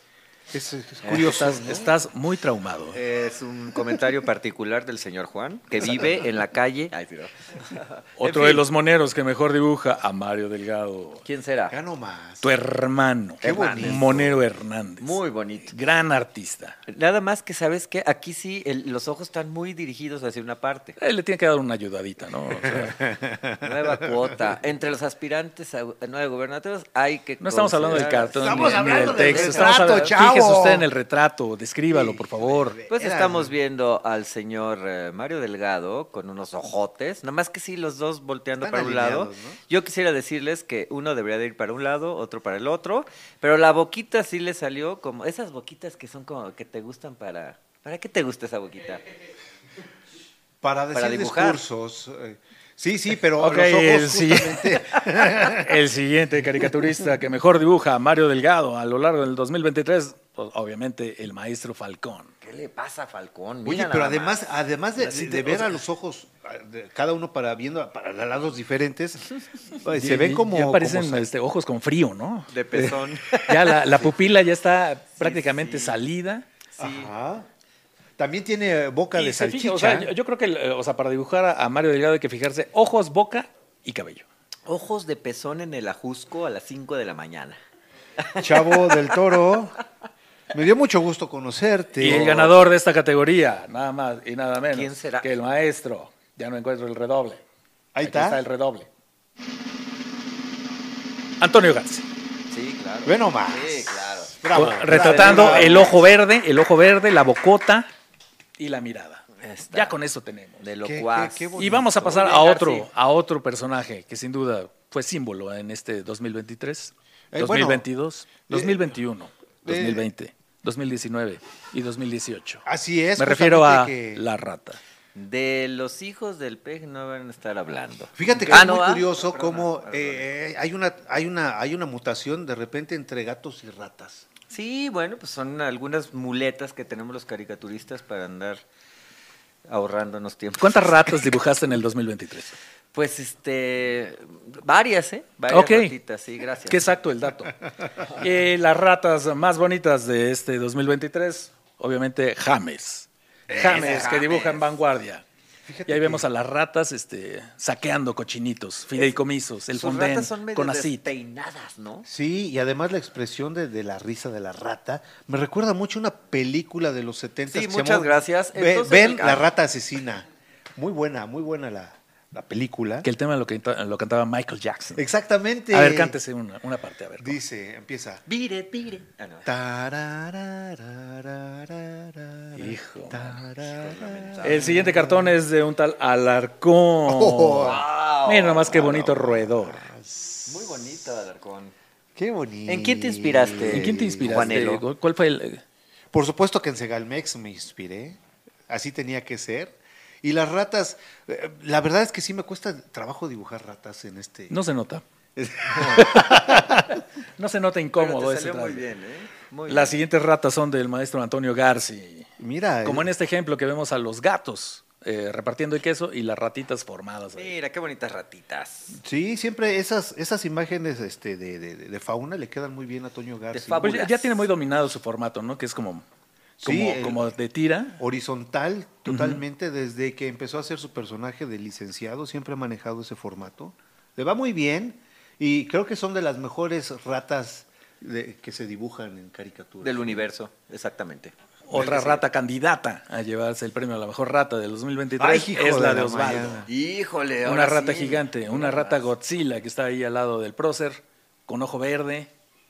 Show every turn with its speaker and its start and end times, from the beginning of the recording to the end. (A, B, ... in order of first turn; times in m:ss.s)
0:00.5-0:01.9 A
0:01.0-0:01.3 B
0:01.2-0:03.0 C
0:02.9-0:08.6 B
0:08.2-0:11.2 C
0:11.2-0:11.7 B
0:11.7-0:12.5 A
0:12.4-0:16.8 C
0:13.4-0:14.4 A
0:13.4-0:14.3 B
0:15.0-0:15.7 B
0:16.9-0:21.0 B
0:21.0-0:23.0 C
0:22.6-0:24.2 A
0:23.6-0:30.2 B
0:27.4-0:32.8 C
0:27.9-0:30.9 A
0:31.9-0:33.5 A
0:32.9-0:49.0 B
0:38.6-0:39.6 A
0:50.6-0:55.8 A
0:50.9-0:51.6 B
0:53.4-1:02.3 C
1:02.4-1:04.5 B
1:03.6-1:11.3 A
1:05.0-1:05.5 C
1:09.9-1:12.5 C
1:12.5-1:14.1 B
1:13.4-1:16.4 C
1:15.2-1:16.0 B
1:16.7-1:17.1 B
1:16.8-1:17.5 A
1:18.2-1:20.1 A
1:19.1-1:24.2 C
1:24.7-1:27.6 B
1:28.2-1:29.1 B
1:28.4-1:29.8 A
1:30.5-1:32.6 A
1:32.0-1:37.4 C
1:34.7-1:35.3 B
1:37.9-1:38.4 A
1:38.0-1:38.9 C
1:41.4-1:42.0 C
1:42.5-1:45.9 B
1:43.0-1:46.0 A
1:44.5-1:47.9 C
1:48.6-1:50.6 C
1:49.4-1:50.0 B
1:50.6-1:52.9 B
1:50.8-1:52.4 A
1:51.6-2:02.6 C
1:57.3-1:57.9 A
1:58.5-1:58.9 A
1:59.6-2:00.1 A
2:02.6-2:04.2 A
2:03.2-2:04.8 C
2:05.1-2:10.3 B
2:08.1-2:14.3 A
2:14.5-2:18.6 B
2:19.7-2:21.3 B
2:20.6-2:22.5 C
2:22.9-2:26.8 B
2:25.5-2:25.9 C
2:26.7-2:27.5 C
2:28.2-2:35.2 C
2:33.5-2:34.2 A
2:33.5-2:34.8 B
2:35.6-2:36.3 A
2:35.9-2:41.1 C
2:39.7-2:42.1 B
2:42.0-2:50.2 A
2:47.5-2:49.5 B
2:50.8-2:53.1 A
2:53.0-2:55.0 C
2:55.0-2:56.2 A
2:55.7-2:57.4 C
2:57.2-2:58.2 A
2:58.3-2:59.5 B
2:59.4-3:05.4 A
3:02.5-3:03.3 C
3:03.6-3:04.8 B
3:04.4-3:09.9 C
3:07.1-3:07.8 A
3:07.6-3:08.8 B
3:08.6-3:10.8 A
3:10.4-3:11.7 B
3:12.2-3:14.7 A
3:12.6-3:14.8 B
3:13.7-3:15.6 C
3:16.1-3:24.6 A
3:24.5-3:25.0 C
3:25.4-3:26.9 A
3:26.0-3:28.8 C
3:28.0-3:30.0 B
3:29.7-3:32.3 C
3:32.4-3:33.1 A
3:32.8-3:37.6 C
3:37.3-3:39.0 B
3:38.9-3:44.0 A
3:43.5-3:44.4 B
3:43.8-3:46.0 C
3:46.6-3:47.3 A
3:46.6-3:48.0 C
3:48.0-4:00.2 A
3:49.1-3:49.4 C
3:59.8-4:01.3 B
4:01.7-4:06.7 C
4:01.7-4:02.2 A
4:05.2-4:06.7 A
4:06.7-4:09.1 B
4:07.4-4:12.3 C